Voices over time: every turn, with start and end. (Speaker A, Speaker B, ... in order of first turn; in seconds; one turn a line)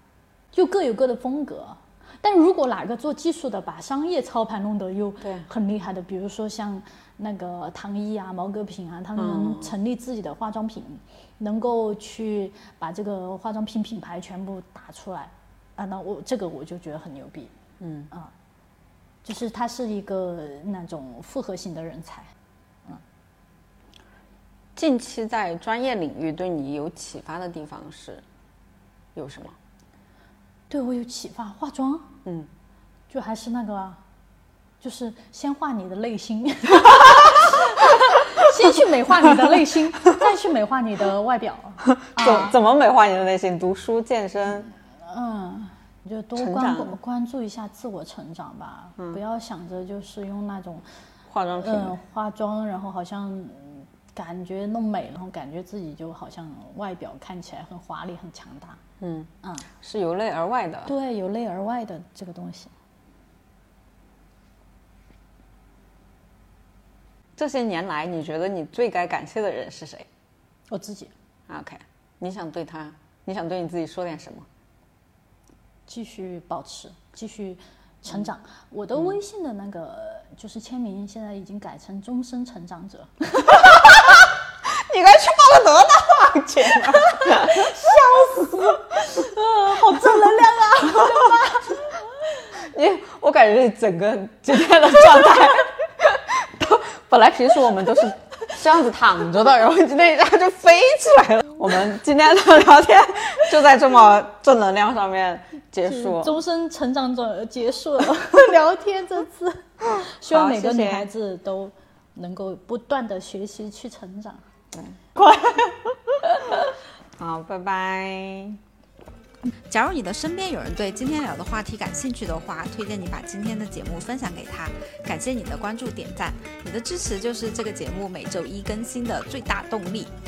Speaker A: 0.5-17.5
Speaker B: 5.2-5.5
Speaker B: 9.2-9.7
Speaker B: 17.8-18.1
Speaker A: 19.2-22.3
Speaker B: 24.8-28.2
Speaker B: 29.1-29.6
Speaker A: 30.7-32.2
Speaker B: 32.2-32.5
Speaker A: 33.1-34.0
Speaker A: 34.8-42.5
Speaker B: 41.9-44.7
Speaker A: 45.0-50.9
Speaker B: 46.4-47.0
Speaker B: 51.3-52.0
Speaker A: 51.6-58.8
Speaker B: 59.0-60.9
Speaker A: 59.4-59.7
Speaker A: 60.9-62.7
Speaker B: 67.4-70.1
Speaker A: 70.7-71.1
Speaker B: 71.5-74.5
Speaker A: 75.9-83.8
Speaker B: 83.5-88.7
Speaker A: 87.1-91.8
Speaker B: 90.8-91.6
Speaker B: 92.5-106.4
Speaker A: 105.8-114.4
Speaker B: 110.0-111.1
Speaker B: 114.7-115.0
Speaker A: 115.2-115.7
Speaker B: 117.2-118.6
Speaker C: 119.7-130.1